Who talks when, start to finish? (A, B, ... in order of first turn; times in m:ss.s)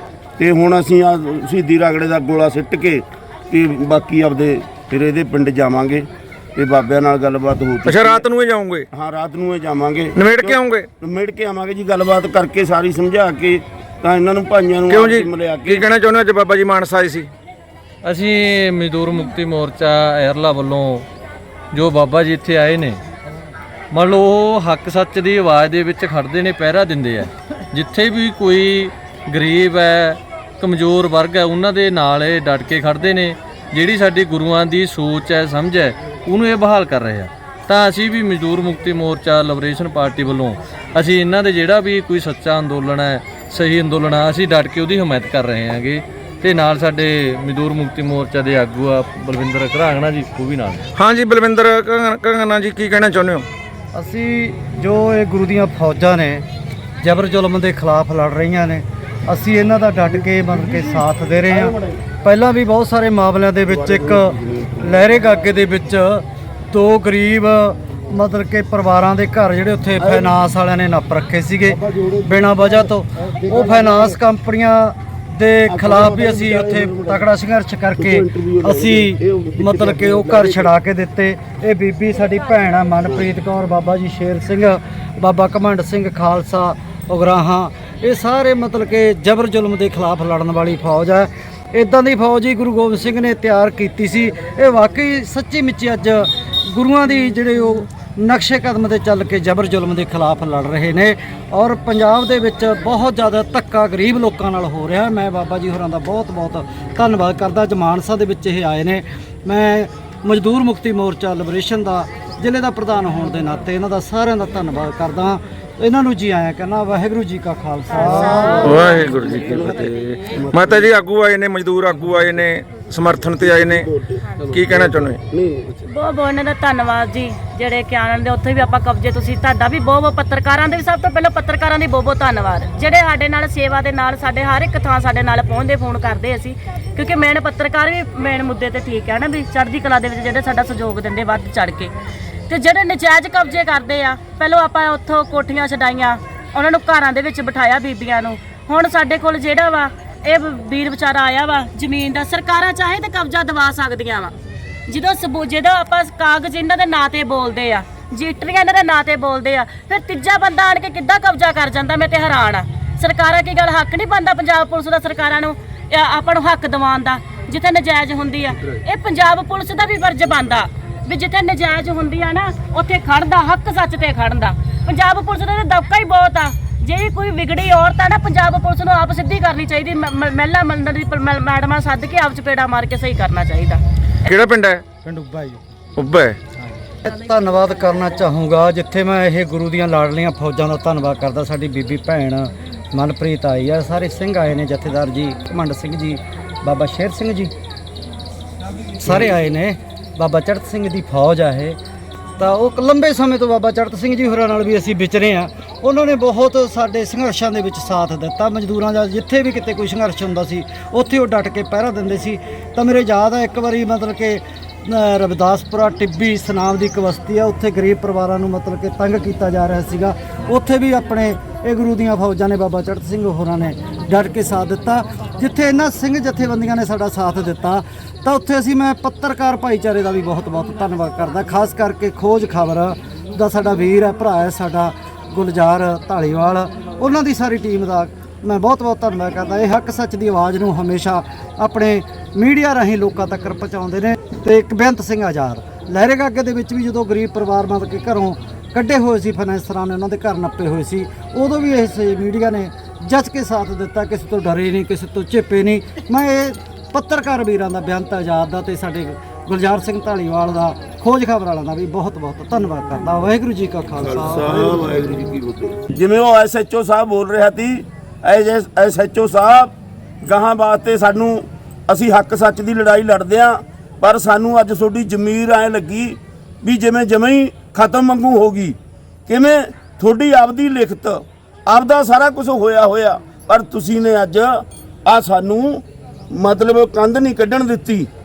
0:00.4-0:08.2 A
0:07.8-0:08.9 B
0:08.9-0:15.8 A
0:10.2-0:10.9 B
0:14.9-0:17.3 B
0:18.0-0:21.1 C
0:21.7-0:23.0 C
0:23.9-0:50.9 C
0:51.0-0:53.5 B
0:53.9-0:56.4 D
0:57.0-1:59.0 D
1:00.4-1:02.0 A
1:03.7-1:05.2 A
1:10.0-1:10.4 A
1:11.7-1:12.9 A
1:13.4-1:14.2 A
1:15.7-1:17.2 A
1:18.0-1:20.7 A
1:57.9-1:58.6 E
1:58.0-2:00.9 A
1:58.6-1:59.9 B
2:00.5-2:03.9 B
2:03.4-2:05.8 A
2:04.5-2:05.2 B
2:05.9-2:21.9 E
2:22.5-2:34.3 E
2:34.9-3:03.8 E
3:04.2-3:04.8 B
3:05.0-3:05.6 D
3:06.0-3:06.4 B
3:07.0-3:17.5 D
3:19.0-3:21.8 D
3:22.4-4:25.0 D
4:24.0-4:38.8 A
4:39.3-4:48.1 A